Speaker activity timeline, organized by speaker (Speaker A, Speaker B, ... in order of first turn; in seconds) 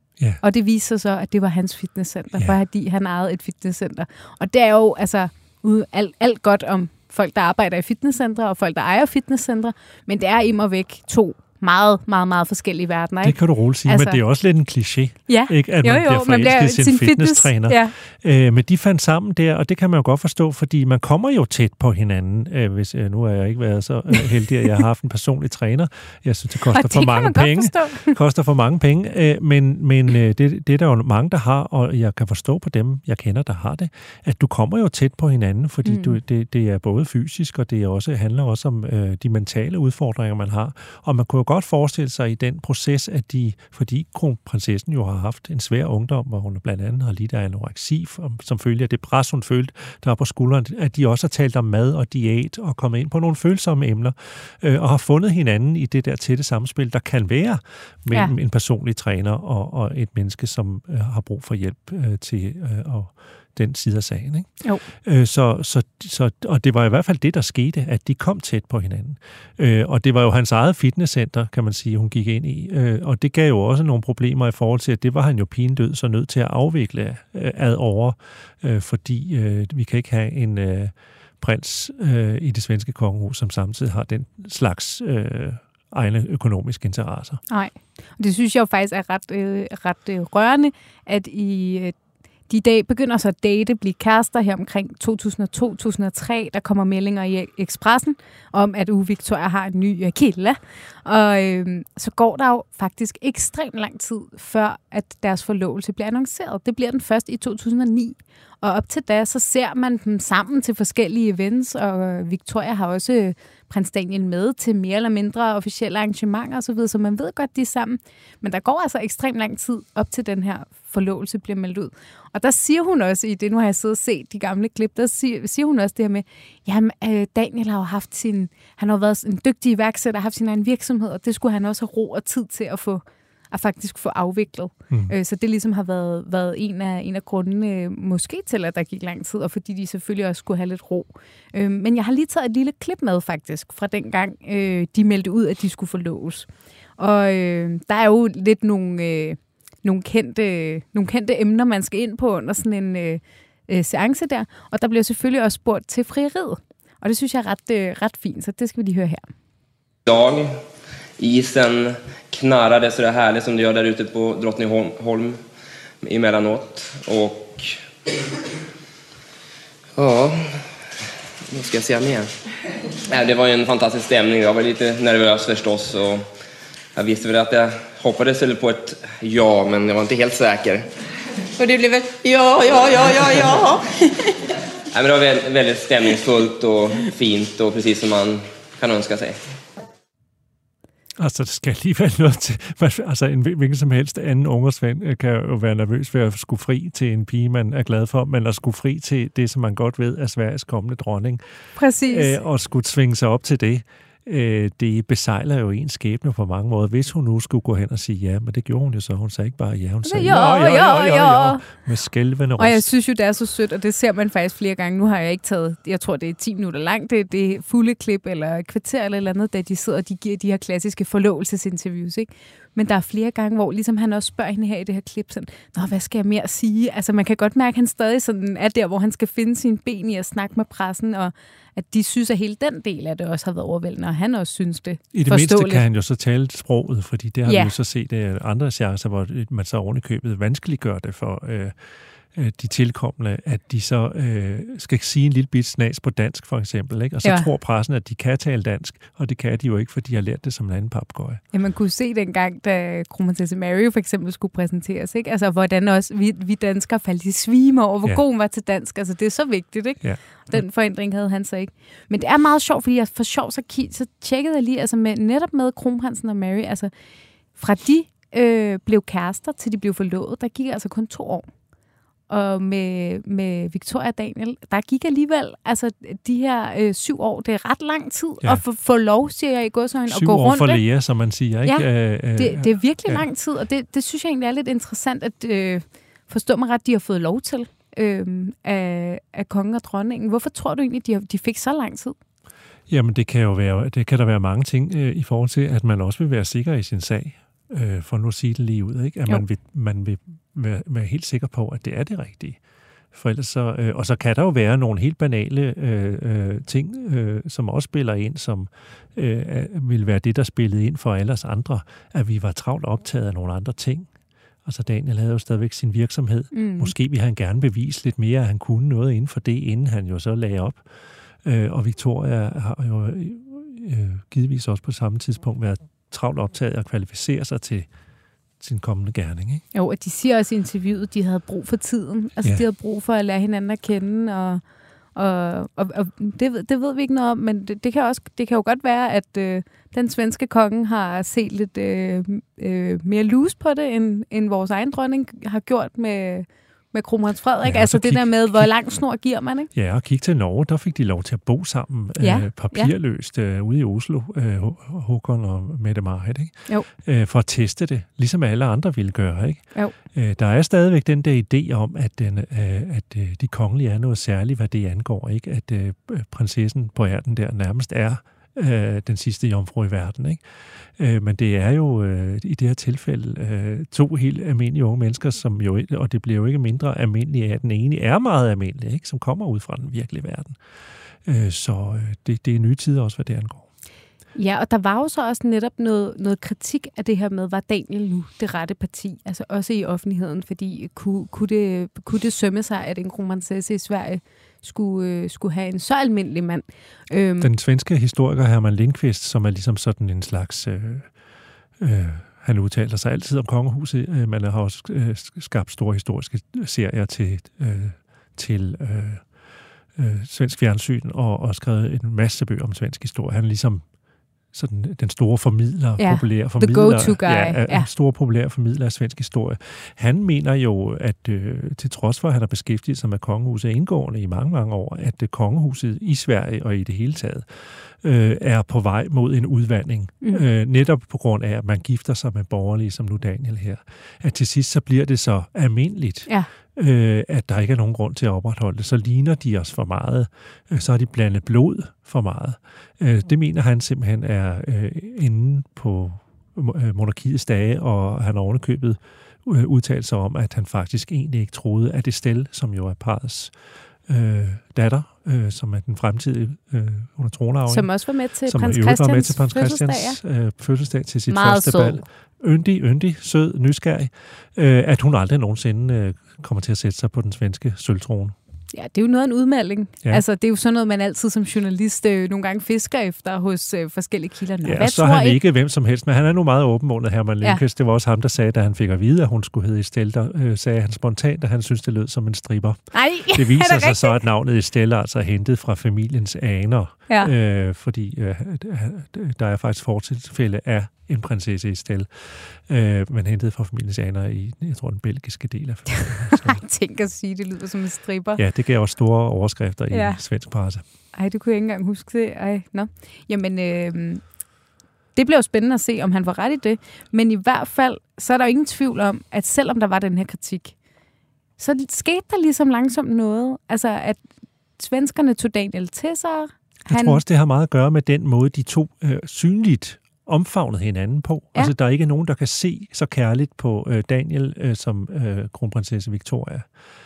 Speaker A: 0.4-14.2, 15.3-17.9, 26.7-28.2, 35.9-36.2, 87.5-92.0, 92.5-159.3, 201.8-202.4, 210.1-211.7, 212.6-235.8, 237.5-237.7, 247.2-247.5, 251.5-266.9, 267.6-271.5, 272.3-280.8, 281.6-292.2, 316.5-316.9, 329.7-334.6, 335.1-349.7, 352.2-352.9, 384.4-397.5, 416.0-417.9, 457.7-460.2, 461.3-462.0, 468.7-475.4, 482.9-484.2, 496.1-498.4, 499.9-500.2, 501.1-504.2, 505.1-510.8, 511.6-514.2, 514.8-517.2
Speaker B: 13.2-64.5, 65.0-87.4, 191.2-201.4, 202.1-212.9, 235.1-241.8, 242.3-251.4, 260.0-260.6, 280.1-283.3, 292.9-302.6, 303.1-314.1, 314.6-320.9, 321.4-327.9, 328.6-329.6, 347.6-348.7, 349.7-370.4, 371.0-380.6, 381.2-383.6, 397.4-401.1, 401.8-409.4, 409.9-413.9, 414.5-453.5, 454.1-457.9, 458.5-468.4, 474.6-496.6, 498.4-500.8, 516.9-526.7
Speaker C: 160.1-160.6, 161.2-165.4, 166.0-167.8, 170.0-170.7, 171.5-172.3, 173.1-176.2, 176.9-180.9, 184.9-189.4
Speaker D: 181.6-184.3